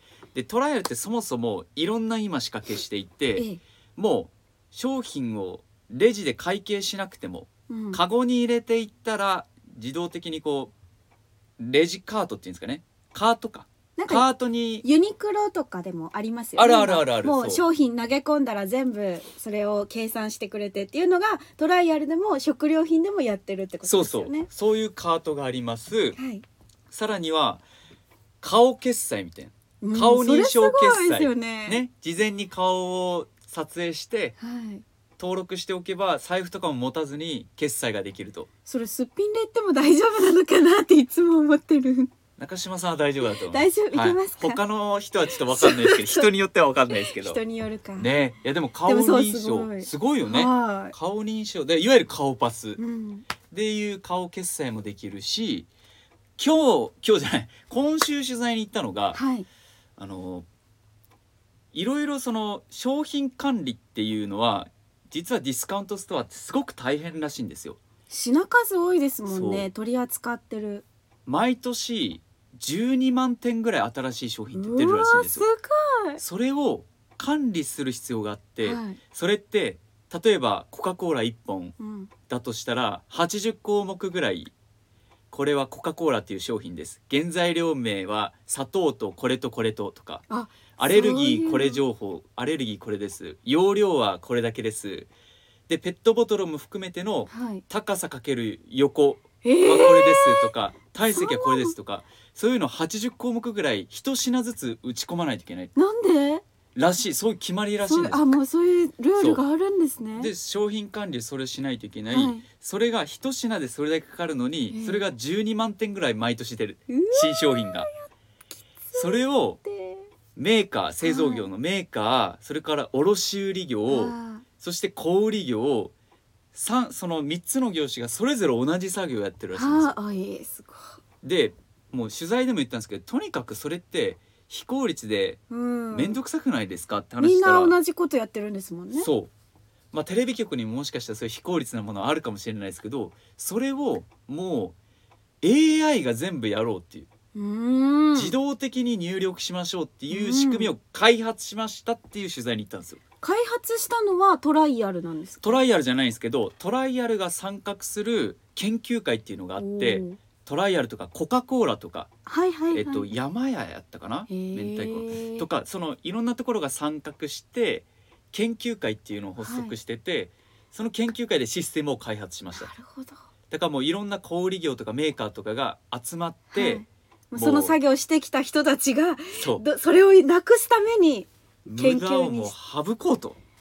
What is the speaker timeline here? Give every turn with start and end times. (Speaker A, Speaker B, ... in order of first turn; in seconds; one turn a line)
Speaker A: 0.3-10.7
Speaker B: 7.7-8.0
Speaker A: 11.6-14.8
Speaker B: 14.0-14.3
Speaker B: 14.8-24.5
Speaker A: 16.6-17.6
Speaker A: 23.9-26.2
Speaker B: 26.2-26.4
Speaker A: 26.9-27.6
Speaker A: 28.4-34.4
Speaker B: 29.8-31.8
Speaker B: 34.4-34.8
Speaker A: 35.2-38.5
Speaker B: 38.7-42.1
Speaker A: 42.4-47.4
Speaker B: 43.4-44.6
Speaker B: 45.6-46.3
Speaker B: 46.9-48.1
Speaker A: 48.0-52.8
Speaker B: 48.9-51.0
Speaker B: 52.8-53.3
Speaker A: 53.5-55.7
Speaker A: 56.4-59.2
Speaker B: 59.1-59.5
Speaker A: 60.0-60.5
Speaker A: 61.7-67.8
Speaker B: 68.1-70.9
Speaker A: 69.3-69.7
Speaker A: 71.3-75.5
Speaker B: 74.5-76.2
Speaker A: 76.2-81.8
Speaker B: 78.6-79.0
Speaker B: 81.8-82.1
Speaker A: 82.3-84.5
Speaker A: 85.3-90.2
Speaker B: 90.3-91.8
Speaker A: 90.8-95.1
Speaker A: 95.7-105.7
Speaker B: 97.3-97.6
Speaker B: 99.4-100.5
Speaker B: 101.1-101.8
Speaker B: 105.8-106.4
Speaker A: 106.8-108.3
Speaker B: 107.9-110.3
Speaker A: 110.2-117.9
Speaker B: 112.1-112.5
Speaker B: 114.7-115.1
Speaker B: 116.9-118.1
Speaker B: 118.8-120.1
Speaker A: 119.0-119.6
Speaker A: 120.4-125.9
Speaker B: 121.0-121.5
Speaker B: 123.9-124.4
Speaker A: 126.5-129.9
Speaker B: 129.6-131.0
Speaker A: 131.2-135.4
Speaker B: 135.5-136.2
Speaker A: 135.9-137.8
Speaker B: 137.2-139.1
Speaker A: 138.9-139.3
Speaker A: 139.9-144.8
Speaker A: 145.4-147.1
Speaker B: 147.3-148.3
Speaker A: 148.2-153.0
Speaker B: 150.1-150.7
Speaker B: 153.2-155.6
Speaker A: 155.4-162.1
Speaker B: 159.6-160.2
Speaker B: 162.3-163.1
Speaker A: 162.7-172.7
Speaker B: 164.3-165.5
Speaker B: 169.4-169.7
Speaker B: 172.5-173.2
Speaker A: 173.5-177.8
Speaker B: 176.5-182.6
Speaker A: 179.3-179.6
Speaker A: 181.7-183.4